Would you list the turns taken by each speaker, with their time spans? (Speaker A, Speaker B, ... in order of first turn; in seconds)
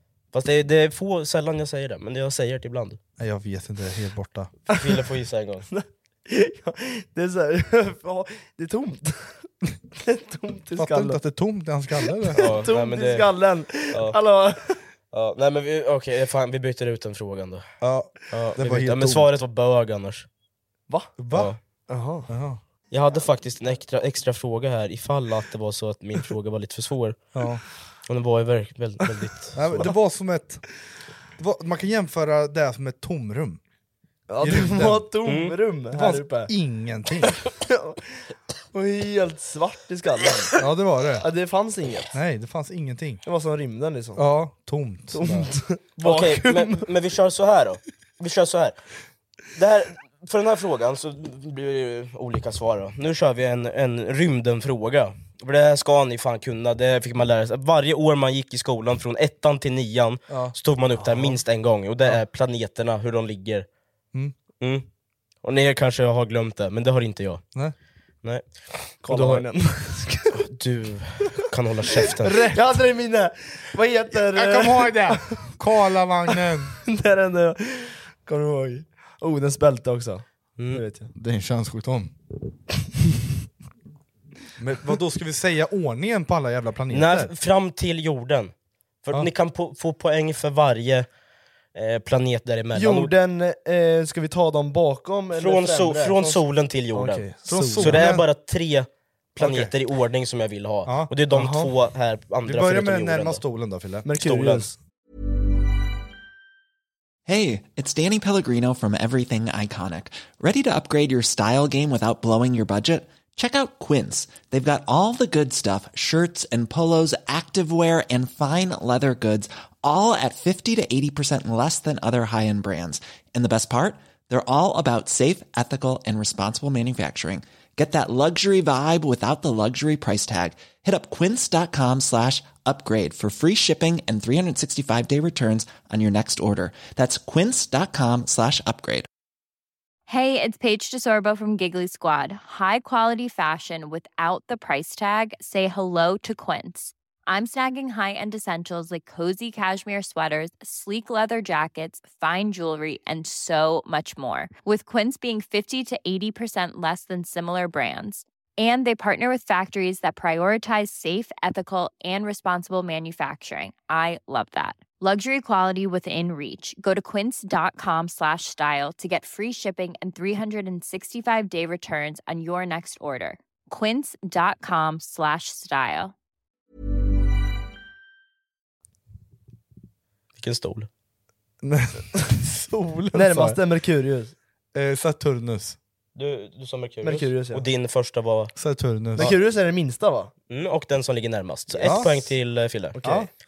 Speaker A: 0.3-3.0, 4.8-5.7, 12.4-13.3, 13.9-14.2, 15.1-17.7, 18.3-20.3, 21.3-21.6, 22.9-27.2, 28.1-29.9, 35.2-35.6, 46.0-48.8, 49.5-63.7, 64.6-64.9, 65.4-67.4, 68.2-69.5, 70.3-72.5, 80.6-80.8, 86.9-88.5, 89.0-91.1, 91.7-93.1, 95.3-97.2, 97.8-103.4, 104.2-104.7, 180.4-180.9, 186.2-188.5, 190.5-193.0
Speaker B: 3.2-4.5, 10.8-12.5, 17.8-19.3, 21.2-21.5, 22.3-22.6, 27.4-27.6, 29.6-30.6, 31.4-33.6, 34.4-35.1, 35.9-37.4, 40.6-41.2, 42.1-43.2, 44.2-45.5, 60.3-60.5, 72.3-72.6, 74.3-76.8, 81.2-82.1, 84.6-87.3, 97.5-98.3, 99.4-99.7, 100.9-101.2, 102.5-104.1, 181.6-183.6, 184.7-185.8, 188.6-189.3, 191.8-192.2, 193.0-193.3
Speaker C: 5.7-9.5, 10.0-11.2, 12.3-14.8, 20.9-21.1, 21.9-22.3, 34.3-36.5, 37.6-38.0, 38.7-40.6, 41.2-42.1, 43.2-44.2, 45.1-46.9, 69.0-70.4, 72.0-75.5, 76.8-81.1, 92.7-98.2, 101.3-101.7, 104.0-104.8, 183.1-184.3, 187.0-187.7, 189.2-190.3, 191.8-192.1, 193.0-193.3
Speaker D: 107.3-139.1
Speaker E: 140.1-176.1